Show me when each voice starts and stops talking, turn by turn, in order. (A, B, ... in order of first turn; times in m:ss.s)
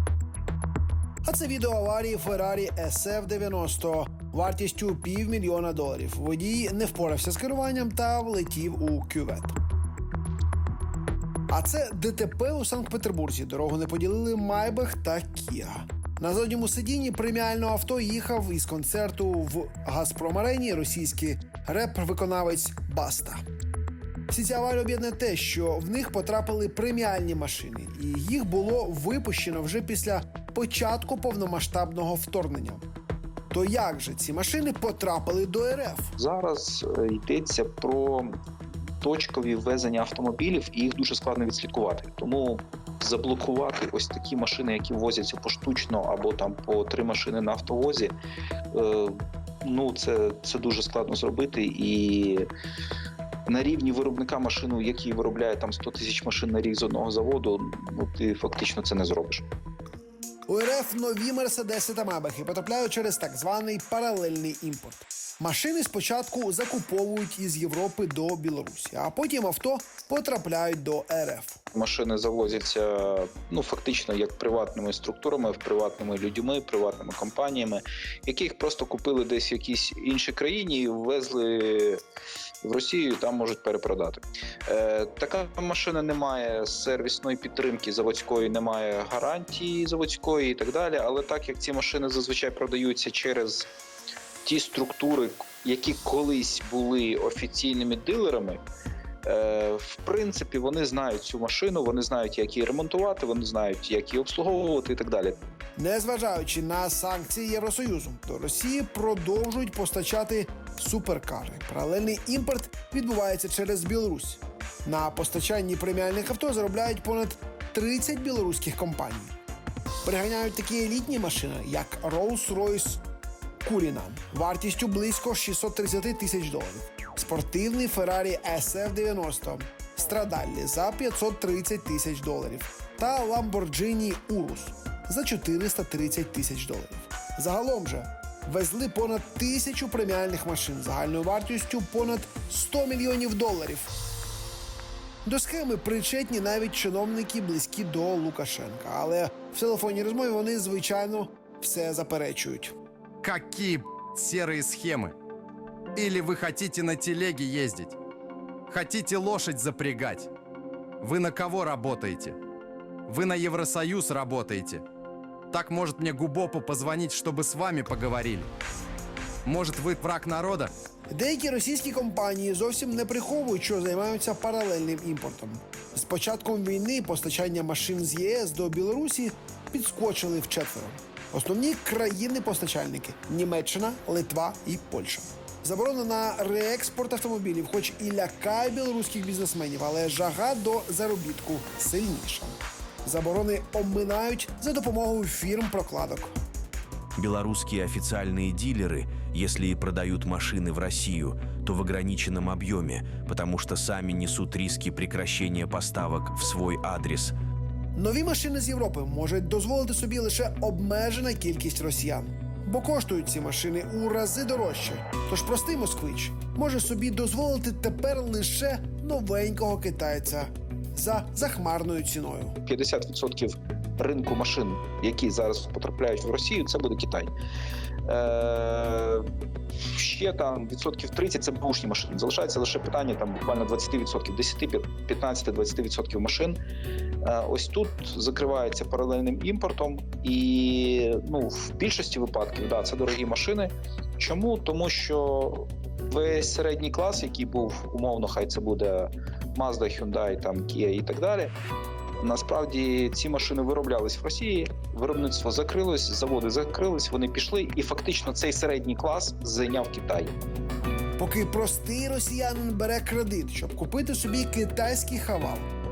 0:01.2-0:09.6 A
0:11.5-0:23.4 A
0:24.3-0:32.8 A
0:33.5-0:36.1 A
0:36.2-0:38.3 B
0:39.0-0:48.1 B
0:48.7-0:52.5 B
0:53.5-0:59.4 B
1:00.5-1:11.6 A
1:11.7-1:22.0 B
1:22.6-1:33.7 B
1:34.4-1:38.6 B
1:39.2-1:45.4 B
1:45.8-1:59.4 A
2:00.0-2:03.0 A
2:03.6-2:23.9 A
2:25.2-2:32.7 A
2:33.2-2:35.2 C
2:36.0-2:38.0 C
2:38.7-2:40.3 C
2:41.0-2:42.4 C
2:43.1-2:44.8 C
2:45.5-2:48.5 C
2:49.4-2:50.7 C
2:51.1-3:16.3 A
3:17.2-3:27.4 D
3:28.0-3:42.6 A
3:42.7-3:47.3 B
3:48.0-3:49.3 B
3:49.9-3:56.6 B
3:57.2-4:11.5 B
4:12.2-4:20.4 B
4:21.2-4:25.7 A